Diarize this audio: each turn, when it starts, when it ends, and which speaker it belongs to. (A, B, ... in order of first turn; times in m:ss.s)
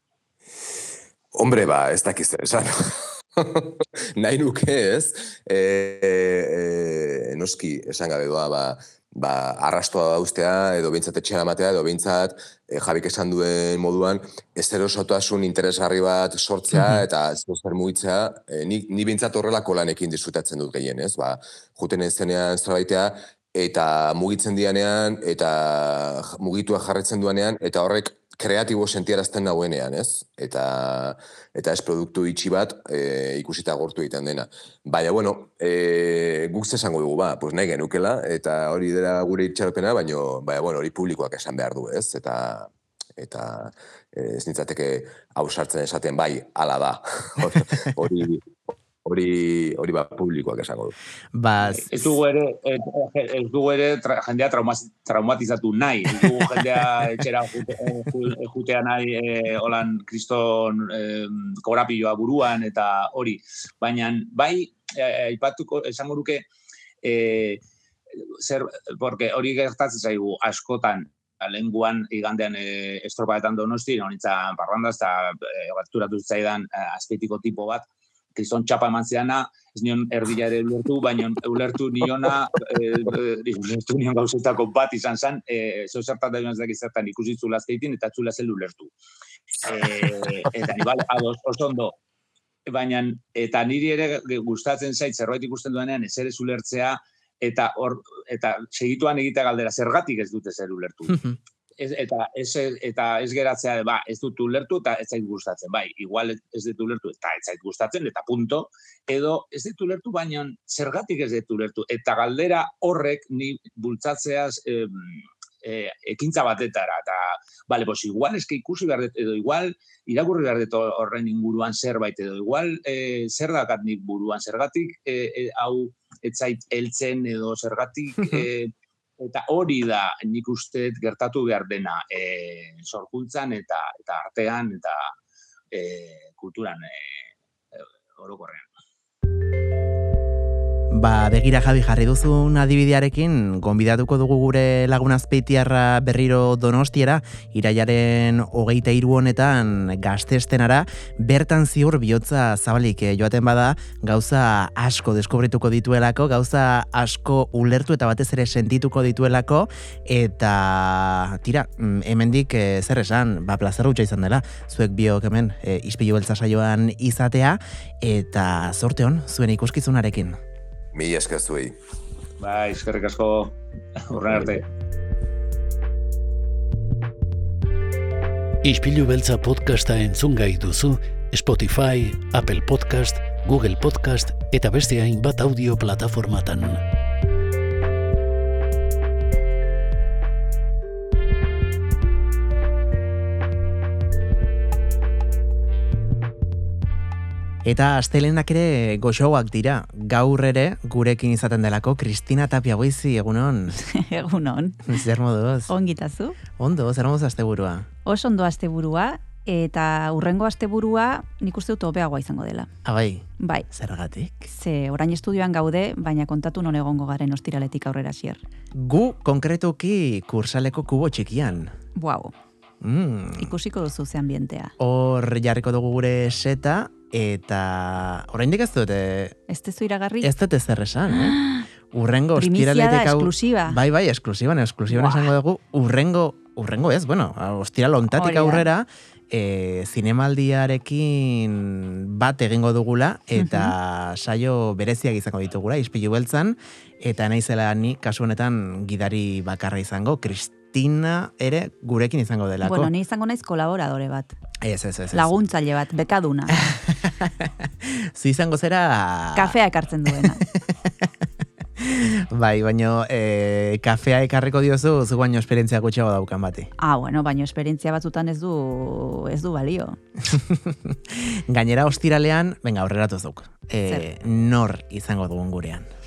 0:01.3-0:48.5 A
0:16.7-0:17.0 B
0:49.0-0:50.9 A
0:51.3-0:52.1 B
0:51.8-1:06.5 C
1:07.0-1:07.6 C
1:08.2-1:17.8 C
1:18.3-1:28.9 C
1:29.5-1:32.0 C
1:32.6-1:41.2 C
1:41.8-2:15.1 C
2:15.7-2:18.7 C
2:20.9-2:50.4 B
2:50.9-2:51.8 A
2:52.4-2:54.6 C
2:58.6-3:06.8 D
3:17.6-3:23.8 B
3:23.8-3:24.9 E
3:24.9-3:25.7 B
3:25.7-3:26.4 E
3:26.6-3:27.9 B
3:28.0-3:32.7 E
3:32.8-3:34.4 B
3:33.4-3:33.7 E
3:34.5-3:38.4 E
3:38.7-3:41.7 B
3:42.0-3:42.3 E
3:42.8-3:43.5 B
3:43.4-3:44.7 E
3:44.8-3:49.4 B
3:49.5-3:50.3 E
3:50.2-3:51.4 B
3:51.1-3:51.6 E
3:51.9-4:12.9 B
3:52.4-3:53.8 E
3:54.9-3:55.2 E
3:58.1-3:58.7 E
4:03.3-4:03.7 E
4:12.6-4:14.3 E
4:14.6-4:15.3 B
4:15.1-4:16.6 E
4:16.6-4:19.6 B
4:19.3-4:20.4 E
4:20.1-4:21.1 B
4:21.8-4:26.7 B
4:26.8-4:30.0 E
4:30.2-4:35.9 B